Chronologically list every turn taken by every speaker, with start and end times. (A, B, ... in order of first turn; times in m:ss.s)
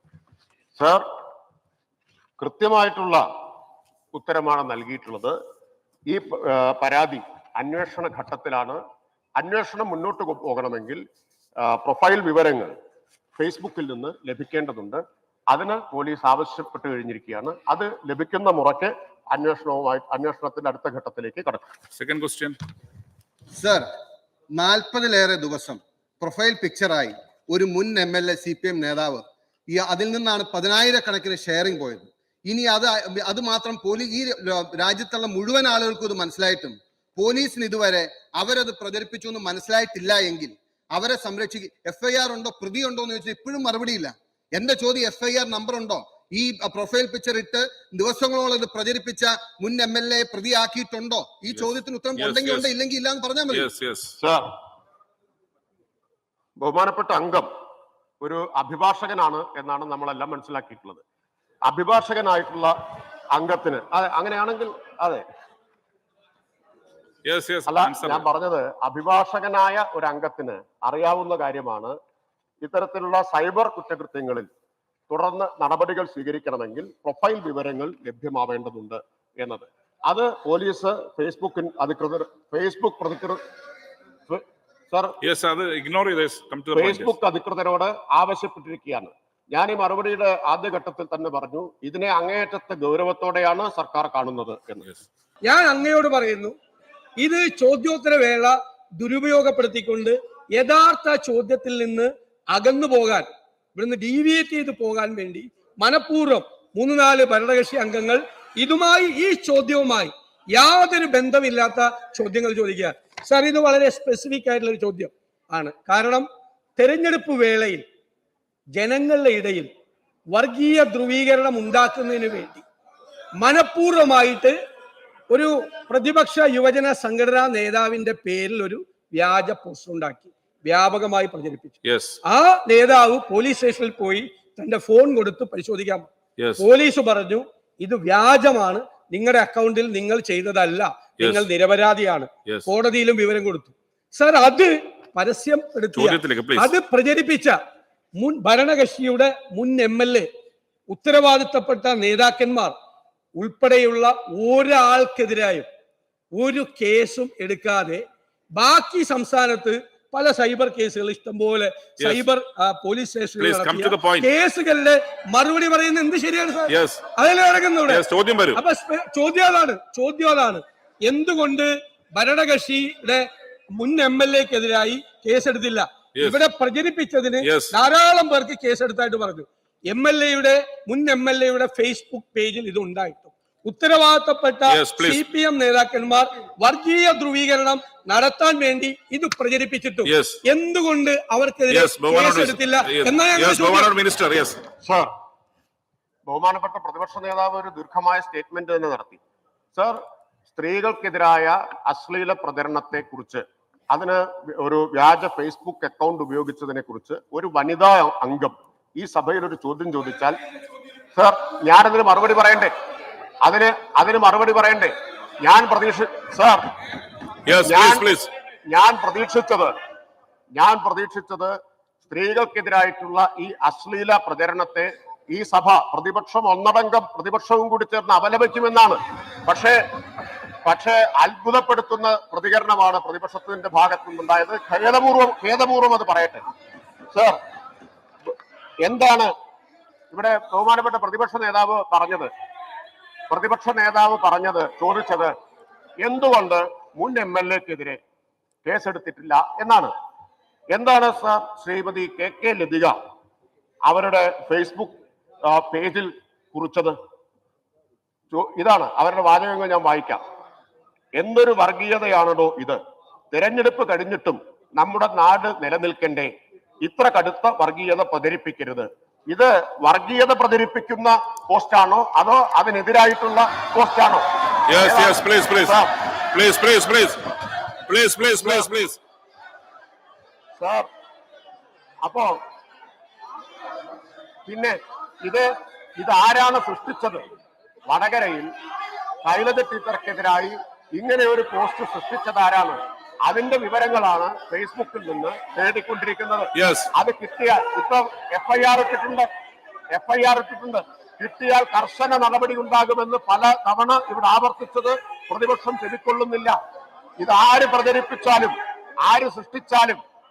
0:00.8-0:01.0 A
0:02.4-0:03.2 A
0:04.1-0:05.4 A
0:06.1-0:08.8 A
0:09.4-0:11.0 A
0:11.6-0:12.8 A
0:13.4-0:21.7 A
0:22.0-0:22.6 B
0:23.6-0:23.9 C
0:24.6-0:53.7 C
0:51.5-0:52.7 B
0:53.5-0:54.2 B
0:54.2-0:54.4 A
0:56.6-0:57.5 A
0:58.2-1:01.0 A
1:01.7-1:02.7 A
1:03.3-1:05.2 A
1:07.2-1:08.2 B
1:07.7-1:11.9 A
1:12.6-1:14.5 A
1:15.1-1:23.4 A
1:24.3-1:25.2 A
1:25.2-1:27.2 B
1:26.8-1:34.9 A
1:35.5-1:36.6 D
1:37.2-1:56.3 D
1:56.8-1:57.8 D
1:58.7-1:59.7 D
2:00.3-2:02.6 D
2:03.4-2:04.5 D
2:05.3-2:27.6 D
2:11.8-2:12.2 B
2:16.4-2:16.6 B
2:25.9-2:26.7 B
2:28.2-2:30.3 D
2:30.9-2:32.7 D
2:33.4-2:35.7 D
2:36.3-2:38.0 D
2:38.6-3:13.9 D
2:43.4-2:44.3 B
2:46.7-2:47.0 B
2:47.9-2:48.6 B
2:57.4-2:57.8 B
3:04.7-3:05.2 B
3:10.1-3:10.4 B
3:11.7-3:14.6 B
3:14.8-3:15.1 A
3:16.3-3:19.2 A
3:19.8-3:30.4 A
3:31.2-3:32.7 A
3:33.4-3:36.7 A
3:37.5-3:38.3 B
3:37.7-3:39.7 A
3:40.5-3:41.5 A
3:42.1-3:49.8 A
3:50.6-3:56.4 A
3:58.8-3:59.3 A
4:00.1-4:02.3 A
4:03.3-4:05.3 A
4:06.0-4:08.0 A
4:08.6-4:09.9 A
4:10.7-4:13.0 A
4:13.9-4:15.0 A
4:15.5-4:17.0 A
4:18.3-4:20.2 A
4:21.2-4:22.8 A
4:23.3-4:26.3 A
4:26.8-4:35.9 A
4:34.7-4:35.8 B
4:36.3-4:37.2 B
4:37.9-4:39.0 B
4:38.4-4:38.7 A
4:40.6-4:40.9 A
4:42.0-4:42.4 A
4:44.5-4:47.3 A
4:47.9-4:48.5 A
4:49.2-4:59.3 A
4:56.6-4:56.9 B
4:59.9-5:06.6 A
5:07.2-5:10.0 A